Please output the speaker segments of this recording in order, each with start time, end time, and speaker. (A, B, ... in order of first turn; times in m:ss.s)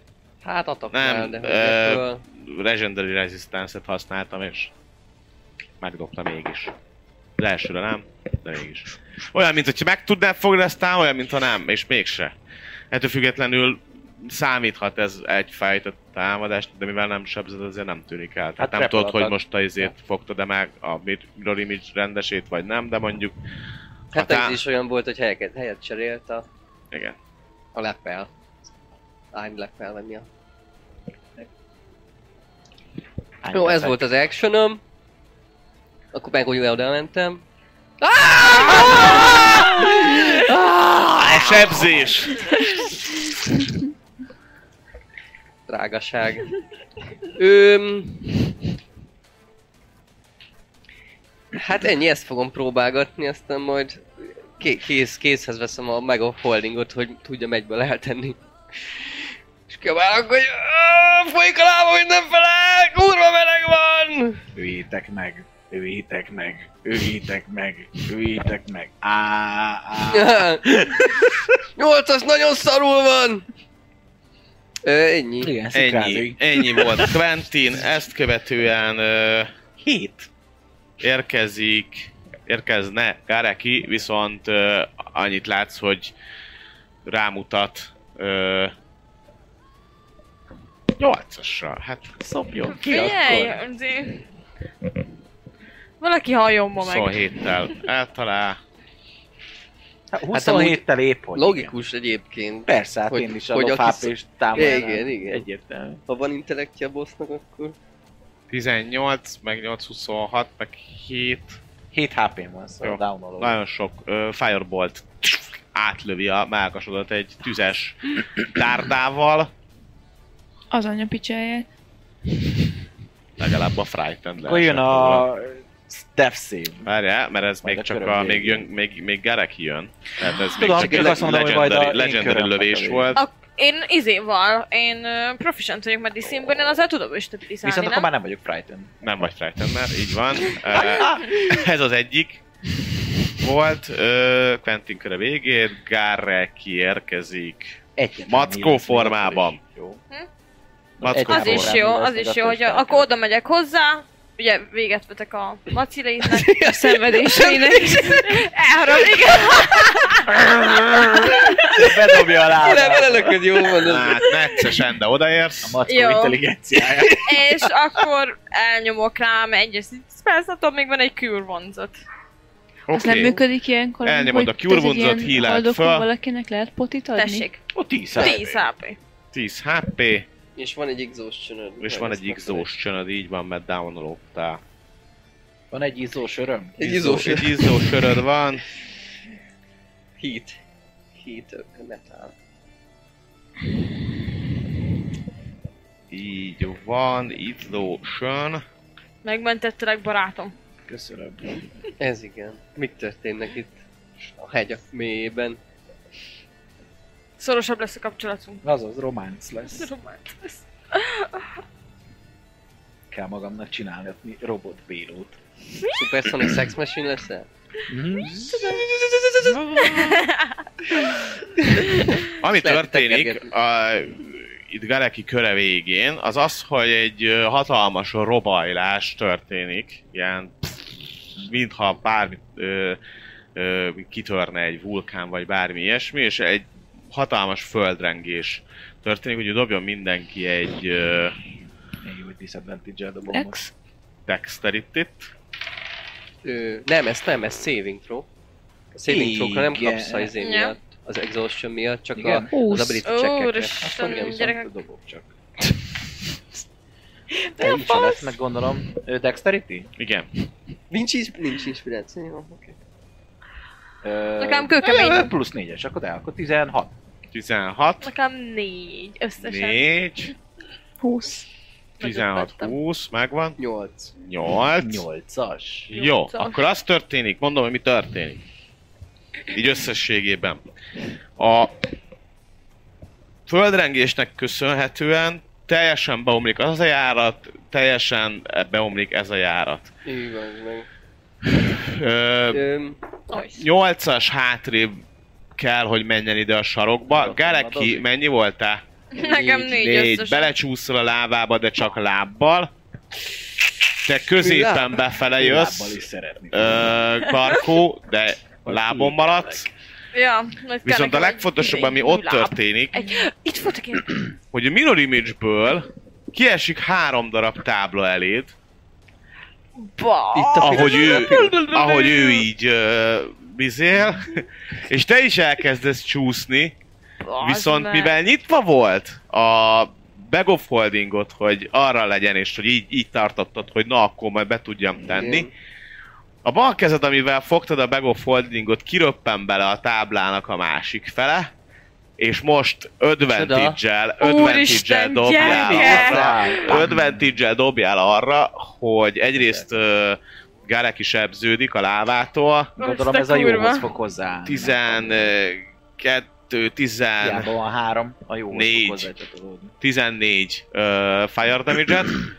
0:00.4-0:02.2 A
0:00.9-0:04.7 B
0:05.8-0:06.7 B
0:07.4-0:12.3 B
0:12.9-0:23.3 B
0:18.6-0:19.4 C
0:24.1-0:24.6 B
0:24.1-0:26.4 A
0:27.7-0:28.3 A
0:29.3-0:30.3 A
0:33.4-0:34.0 C
0:33.5-0:34.8 A
0:36.1-0:37.4 A
0:38.0-0:41.5 A
0:41.1-0:42.2 C
0:41.2-0:42.5 B
0:45.7-0:46.5 A
0:47.3-0:48.4 A
0:51.5-0:58.4 A
0:59.7-1:04.5 A
1:04.5-1:11.5 C
1:10.1-1:10.8 A
1:11.8-1:13.4 A
1:14.8-1:15.5 A
1:15.4-1:17.2 C
1:15.7-1:19.5 B
1:19.8-1:20.3 C
1:21.0-1:26.1 B
1:27.0-1:28.7 B
1:31.0-1:33.4 B
1:32.3-1:33.5 C
1:32.7-1:34.2 D
1:36.0-1:37.5 D
1:36.8-1:38.6 B
1:40.1-1:41.7 C
1:40.3-1:45.5 A
1:42.6-1:46.0 C
1:46.1-1:47.8 A
1:48.5-1:51.6 B
1:51.9-1:53.6 C
1:52.8-1:59.5 B
2:00.7-2:01.6 E
2:03.4-2:05.3 B
2:04.4-2:06.9 C
2:06.8-2:13.2 B
2:07.6-2:08.7 C
2:10.5-2:13.2 C
2:13.1-2:18.1 D
2:17.6-2:18.9 C
2:19.0-2:22.4 B
2:20.7-2:21.3 C
2:23.3-2:29.6 B
2:28.0-2:30.0 C
2:31.0-2:33.1 C
2:31.0-2:31.8 B
2:31.2-2:36.6 D
2:36.3-2:38.1 A
2:36.6-2:38.3 E
2:37.2-2:40.3 D
2:40.3-2:43.7 C
2:41.5-2:41.7 D
2:42.5-2:44.3 A
2:43.8-2:45.8 B
2:45.6-2:47.7 C
2:45.9-2:46.4 D
2:47.1-2:52.0 D
2:52.9-2:53.4 B
2:52.9-2:57.5 E
2:54.0-2:56.1 B
2:57.1-2:57.6 D
2:57.7-2:58.6 C
2:58.1-2:59.0 D
2:59.3-3:00.2 B
3:00.6-3:02.7 A
3:01.8-3:04.6 B
3:05.7-3:07.2 C
3:06.8-3:07.9 A
3:06.8-3:08.6 B
3:10.2-3:10.6 A
3:11.2-3:12.3 A
3:16.1-3:18.6 B
3:19.2-3:20.5 D
3:20.9-3:21.6 C
3:22.0-3:23.8 A
3:24.4-3:25.6 A
3:27.4-3:28.6 D
3:28.6-3:29.9 C
3:29.7-3:31.6 D
3:33.1-3:35.4 C
3:35.9-3:37.5 A
3:37.9-3:38.8 C
3:39.4-3:40.1 C
3:39.8-3:40.5 D
3:41.4-3:43.5 A
3:42.4-3:50.9 B
3:51.4-3:53.0 B
3:53.6-4:01.4 B
4:02.0-4:03.6 C
4:03.3-4:03.7 E
4:04.3-4:05.3 B
4:06.4-4:08.3 A
4:08.9-4:14.4 A
4:09.1-4:10.4 C
4:10.4-4:10.8 D
4:12.1-4:13.0 C
4:12.5-4:13.0 E
4:13.0-4:14.7 D
4:13.8-4:15.3 C
4:17.5-4:18.3 E
4:17.6-4:19.9 C
4:20.0-4:20.3 B
4:20.9-4:22.7 A
4:24.0-4:26.9 C
4:24.4-4:25.3 D
4:27.3-4:28.1 B
4:28.0-4:29.9 D
4:29.4-4:30.3 B
4:31.0-4:31.4 E
4:32.0-4:32.7 D
4:32.0-4:33.6 B
4:33.6-4:34.1 A
4:34.2-4:35.0 B
4:34.8-4:35.9 C
4:35.9-4:38.4 B
4:35.9-4:36.6 D
4:39.5-4:40.6 B
4:41.4-4:41.8 B
4:43.5-4:49.9 B
4:50.0-4:50.9 A
4:51.4-4:52.6 B
4:52.5-4:53.0 A
4:53.3-4:53.6 D
4:53.5-4:55.0 B
4:55.6-4:58.8 B
4:57.0-4:58.1 C
4:59.1-5:00.5 D
4:59.2-4:59.6 A
4:59.4-5:02.7 B
5:04.0-5:09.7 B
5:04.3-5:05.0 A
5:05.4-5:06.9 C
5:08.6-5:09.7 C
5:10.1-5:14.2 D
5:10.8-5:13.1 B
5:14.5-5:18.5 B
5:19.8-5:22.4 D
5:20.3-5:21.6 A
5:20.6-5:26.7 B
5:27.2-5:28.1 D
5:27.4-5:35.5 B
5:35.1-5:35.5 A
5:36.4-5:41.5 B
5:42.2-5:52.7 B
5:43.3-5:43.8 A
5:44.2-5:46.8 D
5:45.3-5:47.3 C
5:49.4-5:49.6 C
5:52.8-5:53.9 D
5:52.8-5:55.3 C
5:54.4-5:57.5 B
5:57.2-5:59.7 C
5:58.5-5:59.1 B
5:59.8-6:02.2 B